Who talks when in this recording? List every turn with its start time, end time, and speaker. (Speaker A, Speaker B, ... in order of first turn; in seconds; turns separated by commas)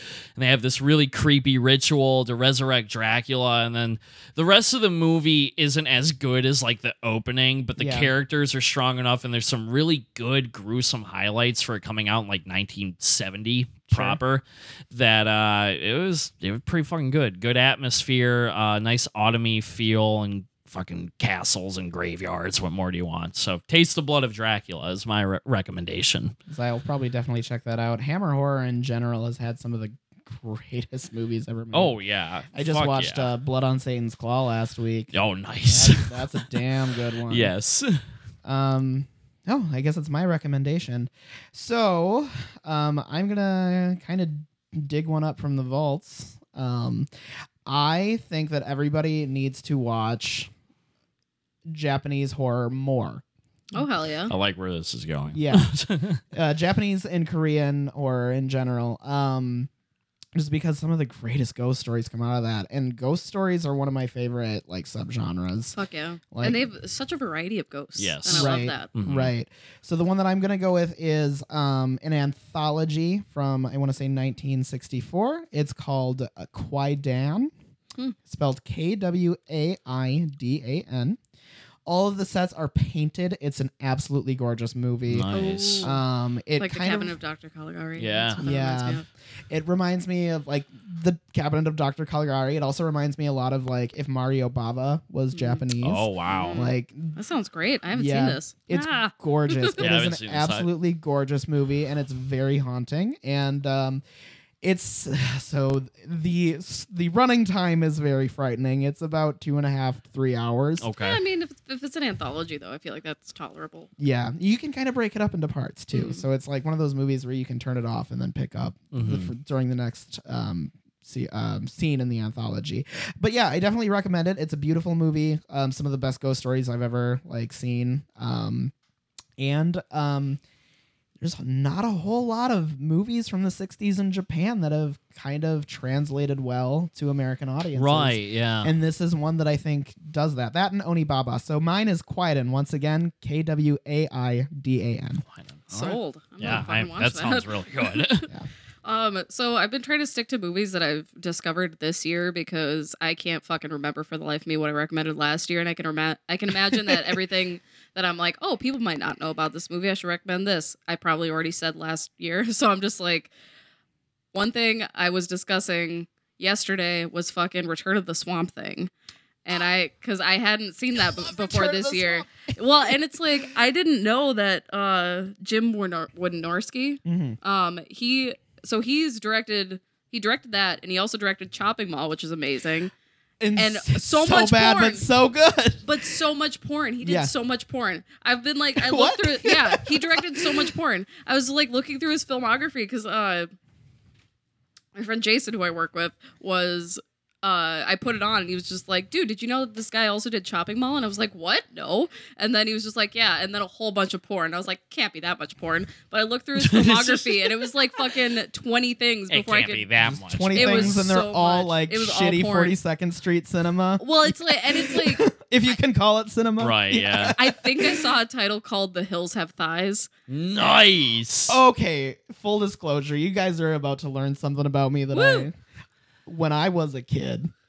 Speaker A: 0.4-26.3, Speaker B: 7.8-8.1, Speaker B: 13.9-14.2, Speaker B: 26.5-31.9, Speaker A: 31.7-33.3, Speaker B: 32.5-35.1, Speaker A: 35.1-36.6, Speaker B: 35.6-37.5, Speaker A: 37.3-38.0, Speaker B: 38.4-47.1, Speaker B: 47.6-50.5, Speaker B: 51.7-53.2, Speaker C: 53.7-54.3, Speaker A: 54.3-56.2, Speaker B: 55.3-55.7, Speaker B: 56.3-59.7, Speaker B: 60.3-65.7, Speaker C: 65.7-68.9, Speaker B: 66.3-66.6, Speaker A: 68.0-69.3, Speaker B: 68.3-77.5, Speaker B: 78.3-81.2, Speaker B: 81.8-85.3, Speaker A: 85.1-85.9, Speaker C: 85.3-86.0, Speaker B: 85.8-87.2, Speaker C: 86.6-89.0, Speaker A: 88.0-88.4, Speaker B: 88.4-97.2, Speaker C: 95.3-95.6, Speaker A: 95.8-96.6, Speaker C: 96.3-99.8, Speaker B: 97.9-104.0, Speaker A: 99.8-100.7, Speaker B: 104.6-110.9, Speaker A: 110.8-111.2, Speaker C: 111.0-113.9, Speaker B: 114.0-128.7, Speaker C: 115.9-116.2, Speaker A: 118.9-119.3, Speaker B: 129.4-130.4, Speaker B: 131.2-145.2, Speaker A: 137.7-138.7, Speaker A: 145.3-148.3, Speaker C: 145.7-148.3, Speaker C: 148.8-163.3, Speaker C: 164.3-168.9, Speaker C: 169.4-182.9, Speaker B: 170.9-173.4, Speaker B: 177.0-177.4, Speaker B: 183.4-186.2, Speaker C: 183.6-185.1, Speaker C: 185.8-193.5, Speaker B: 187.0-187.3, Speaker B: 188.8-190.7, Speaker C: 194.9-209.9, Speaker A: 206.6-207.6, Speaker A: 209.3-211.0, Speaker B: 210.0-218.0, Speaker C: 210.5-212.8, Speaker C: 214.0-215.3, Speaker A: 216.6-217.3, Speaker C: 217.4-220.1, Speaker A: 220.3-221.6, Speaker B: 221.5-225.6, Speaker C: 225.1-225.5, Speaker B: 226.2-227.5